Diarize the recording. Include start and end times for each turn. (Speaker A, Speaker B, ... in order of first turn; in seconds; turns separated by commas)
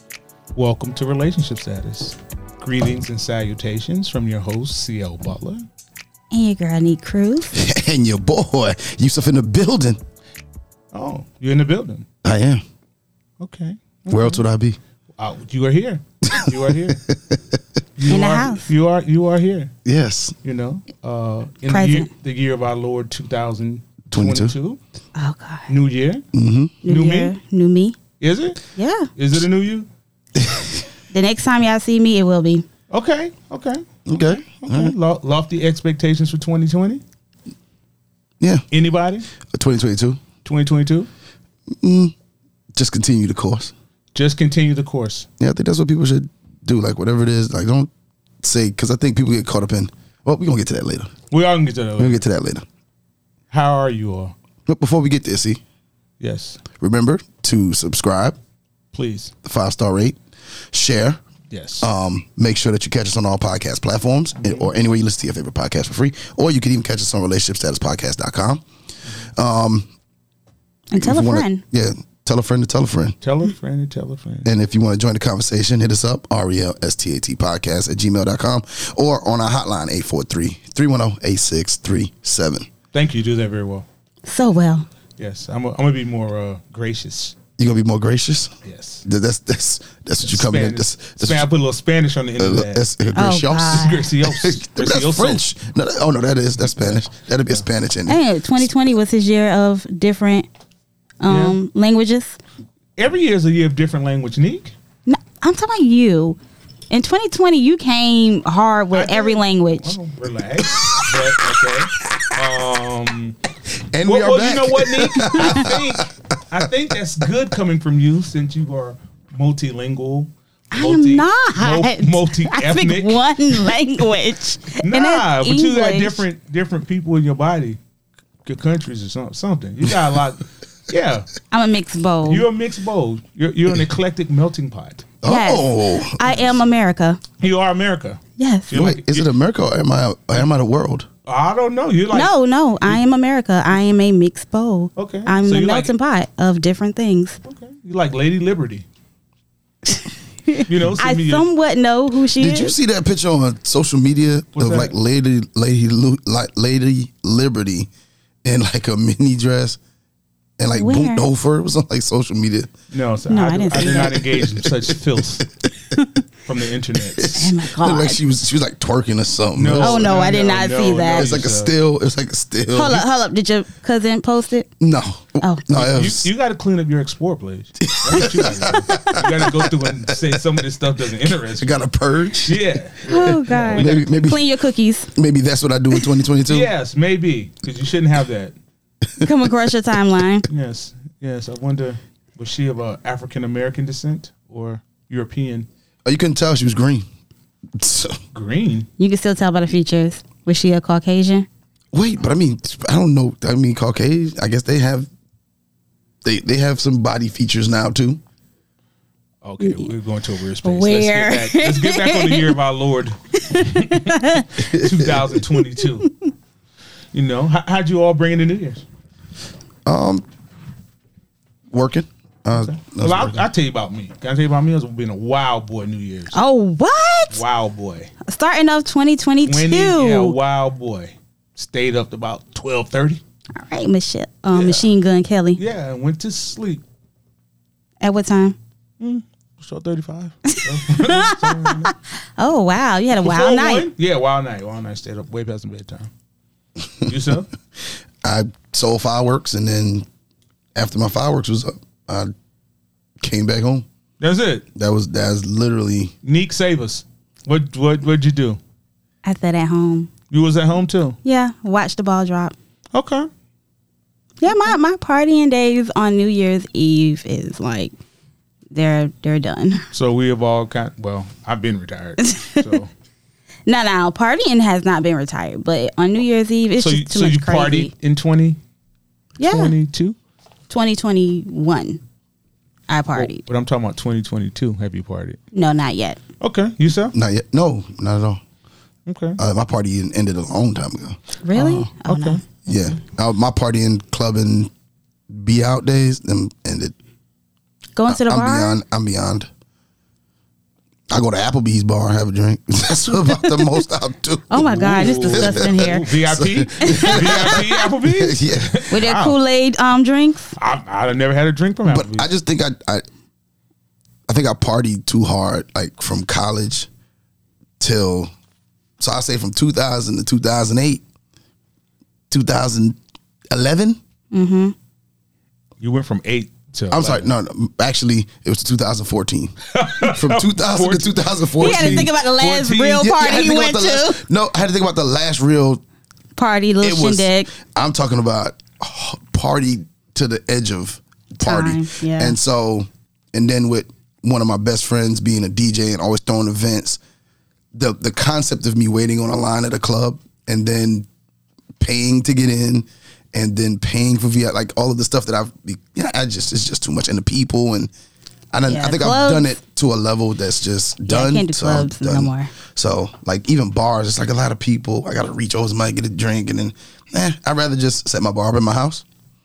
Speaker A: 0.5-5.7, Speaker B: 6.3-7.6, Speaker C: 7.5-10.0, Speaker A: 10.9-12.1, Speaker C: 12.2-12.6, Speaker A: 13.4-14.4, Speaker C: 14.1-14.8, Speaker A: 15.2-17.0, Speaker C: 16.4-17.6, Speaker A: 18.0-19.7, Speaker B: 18.1-18.7, Speaker C: 19.8-20.4, Speaker A: 20.4-24.8, Speaker B: 21.7-22.1, Speaker C: 24.1-24.5, Speaker B: 25.2-25.7, Speaker A: 25.7-26.2, Speaker C: 26.3-26.8, Speaker B: 26.8-28.0, Speaker A: 26.8-27.3, Speaker A: 28.2-28.6, Speaker B: 28.8-29.1, Speaker A: 29.2-29.9, Speaker C: 30.3-30.9, Speaker B: 31.1-32.7, Speaker A: 32.9-37.0, Speaker C: 34.1-35.0, Speaker A: 38.7-39.3, Speaker C: 39.5-40.2, Speaker A: 40.5-41.1, Speaker C: 41.8-42.1, Speaker C: 42.8-43.7, Speaker A: 44.1-45.3, Speaker C: 45.4-47.9, Speaker C: 48.4-51.1, Speaker A: 51.3-52.2, Speaker C: 52.0-52.6, Speaker A: 53.5-54.3, Speaker C: 54.7-55.6, Speaker A: 56.2-56.6, Speaker C: 56.8-58.4, Speaker A: 58.9-59.3, Speaker C: 59.4-60.2, Speaker C: 60.7-61.2, Speaker A: 61.5-61.9, Speaker C: 61.8-68.6, Speaker A: 64.4-64.7, Speaker C: 69.3-69.9, Speaker B: 70.9-71.6, Speaker C: 71.0-73.2, Speaker A: 73.2-74.5, Speaker C: 74.5-82.7, Speaker A: 82.9-83.9, Speaker B: 84.2-84.9, Speaker A: 85.2-87.4, Speaker C: 87.6-88.5, Speaker A: 88.6-89.0, Speaker C: 89.0-91.5, Speaker A: 90.2-92.8, Speaker C: 92.4-98.6, Speaker B: 93.1-94.1, Speaker A: 93.7-95.4, Speaker B: 98.1-100.5, Speaker B: 101.2-102.4, Speaker A: 101.3-101.6, Speaker A: 103.0-104.8, Speaker B: 105.1-106.4, Speaker B: 106.9-110.0, Speaker A: 108.9-113.4, Speaker C: 113.9-116.1, Speaker A: 114.0-123.7, Speaker B: 120.7-126.2, Speaker A: 124.8-127.8, Speaker A: 128.4-131.3, Speaker B: 131.5-132.4, Speaker A: 132.3-135.1, Speaker C: 135.2-136.3, Speaker B: 135.2-137.2, Speaker A: 137.4-139.3, Speaker B: 138.4-138.7, Speaker C: 138.7-141.1, Speaker A: 141.2-142.3, Speaker B: 142.1-147.4, Speaker A: 144.9-145.9, Speaker A: 147.4-148.8, Speaker B: 149.9-152.7, Speaker A: 150.7-151.4, Speaker C: 152.4-157.9, Speaker A: 154.5-154.9, Speaker C: 158.4-159.8, Speaker C: 160.6-162.7, Speaker B: 160.7-161.2, Speaker A: 162.9-165.5, Speaker B: 163.3-164.2, Speaker C: 163.7-165.0, Speaker B: 165.9-166.2, Speaker A: 166.4-167.5, Speaker C: 167.0-170.1, Speaker B: 167.3-168.2, Speaker A: 169.5-171.7, Speaker B: 169.8-171.3, Speaker C: 171.1-173.0, Speaker B: 172.7-174.7, Speaker C: 174.8-176.3, Speaker A: 175.7-181.7, Speaker C: 177.8-180.2, Speaker C: 181.5-182.6, Speaker A: 182.4-184.0, Speaker B: 183.1-185.1, Speaker C: 183.2-184.4, Speaker C: 185.1-186.7, Speaker A: 186.5-188.6, Speaker B: 189.2-190.4, Speaker A: 190.5-195.7, Speaker C: 196.0-197.0, Speaker C: 197.8-198.2, Speaker A: 198.3-198.9, Speaker B: 199.0-201.5, Speaker C: 201.9-205.1, Speaker C: 206.2-208.2, Speaker A: 209.4-216.1, Speaker B: 209.6-209.9, Speaker B: 210.6-212.5, Speaker B: 213.4-214.5, Speaker C: 214.6-215.2, Speaker A: 217.1-218.8, Speaker C: 219.8-220.2, Speaker C: 221.7-223.4, Speaker A: 222.5-226.4, Speaker B: 226.3-227.4, Speaker A: 227.3-228.1, Speaker B: 228.2-230.3, Speaker A: 229.4-233.2, Speaker B: 233.6-235.6, Speaker A: 234.5-234.9, Speaker A: 235.6-236.8, Speaker B: 238.0-238.6, Speaker A: 239.0-241.9, Speaker B: 240.5-243.9, Speaker A: 243.2-246.1, Speaker A: 247.0-247.5, Speaker C: 248.2-250.1, Speaker C: 250.8-252.3, Speaker C: 253.2-253.8, Speaker A: 254.2-254.6, Speaker C: 254.7-256.1, Speaker A: 256.2-258.6, Speaker B: 259.2-260.1, Speaker A: 260.3-261.2, Speaker B: 261.2-262.6, Speaker A: 262.9-263.3, Speaker B: 264.4-267.9, Speaker B: 268.7-269.9, Speaker A: 269.9-272.9, Speaker B: 272.2-272.8, Speaker B: 273.7-277.9, Speaker A: 276.8-278.6, Speaker B: 279.4-279.7, Speaker A: 279.4-280.2, Speaker B: 280.7-282.0, Speaker B: 282.9-283.4, Speaker A: 283.1-285.4, Speaker B: 285.5-286.2, Speaker A: 286.4-287.1, Speaker C: 287.1-288.4, Speaker A: 289.1-289.4, Speaker C: 289.4-291.2, Speaker B: 291.4-292.4, Speaker A: 291.6-292.4, Speaker C: 292.6-294.7, Speaker C: 295.3-296.9, Speaker B: 298.0-298.8, Speaker C: 298.1-299.5, Speaker C: 301.1-308.9, Speaker B: 304.5-306.1, Speaker A: 304.7-309.4, Speaker B: 306.8-307.7, Speaker B: 308.9-310.6, Speaker A: 310.6-312.3, Speaker C: 311.9-313.0, Speaker C: 314.3-316.9, Speaker C: 317.8-318.3, Speaker C: 319.0-321.0, Speaker C: 322.3-323.0, Speaker C: 323.5-324.0, Speaker B: 324.3-324.8, Speaker A: 325.8-327.2, Speaker C: 326.9-332.1, Speaker A: 329.7-333.1, Speaker B: 331.6-334.2, Speaker C: 333.0-335.8, Speaker B: 336.4-337.5, Speaker C: 336.8-347.0, Speaker B: 341.4-342.4, Speaker C: 347.7-351.1, Speaker C: 351.8-357.9, Speaker C: 358.5-369.0, Speaker B: 358.7-359.6, Speaker B: 361.1-362.5